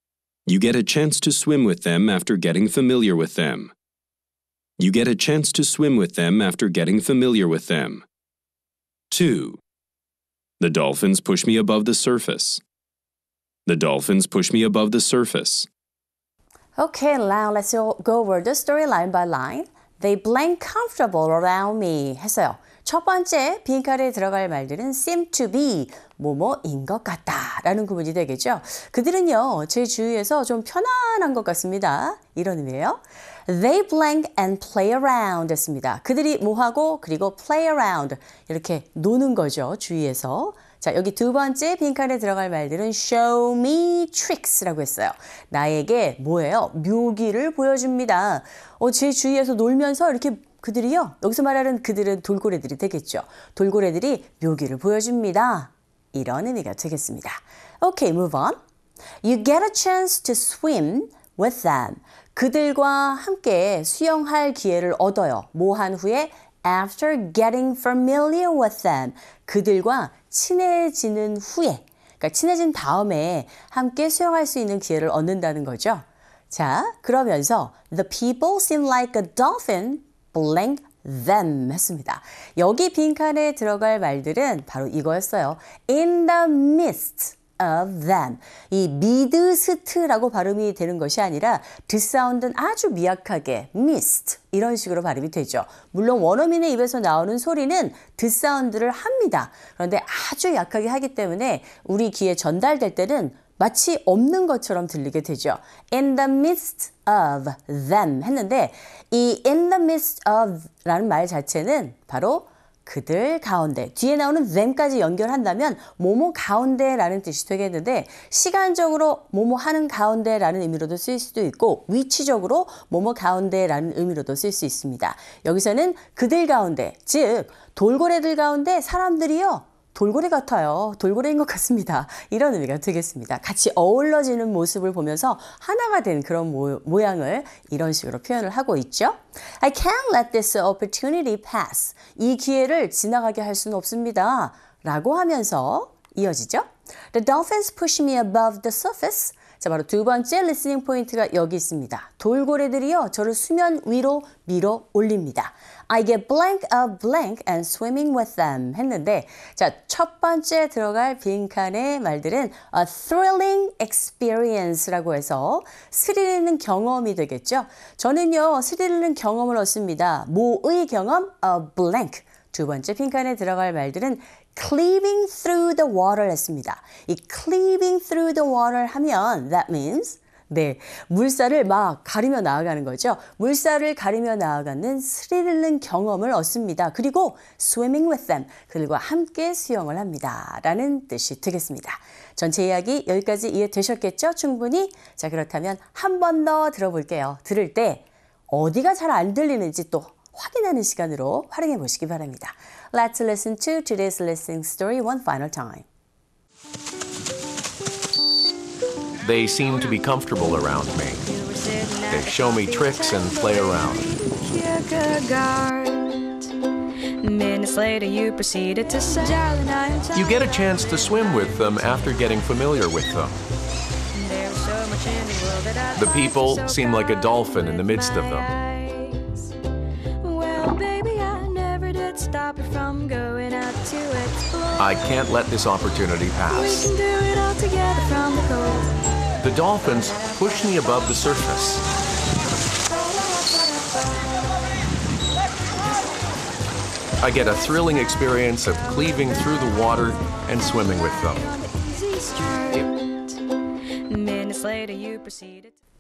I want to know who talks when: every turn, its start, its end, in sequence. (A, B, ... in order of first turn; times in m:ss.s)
0:00.5-0:03.7 A
0:04.8-0:08.0 A
0:09.1-0:09.6 A
0:10.6-0:12.6 A
0:13.7-0:15.7 A
0:16.8-0:58.6 B
0:59.2-3:25.9 B
3:29.2-3:31.2 C
3:31.2-3:36.4 D
3:32.1-3:34.1 C
3:37.2-3:41.1 D
3:40.1-3:43.4 C
3:44.1-3:49.5 D
3:46.0-3:48.5 C
3:50.2-3:55.0 D
3:54.8-3:56.9 C
3:56.5-3:58.9 D
3:59.4-4:01.8 C
4:07.2-4:11.5 C
4:11.5-4:13.4 D
4:14.1-4:15.8 D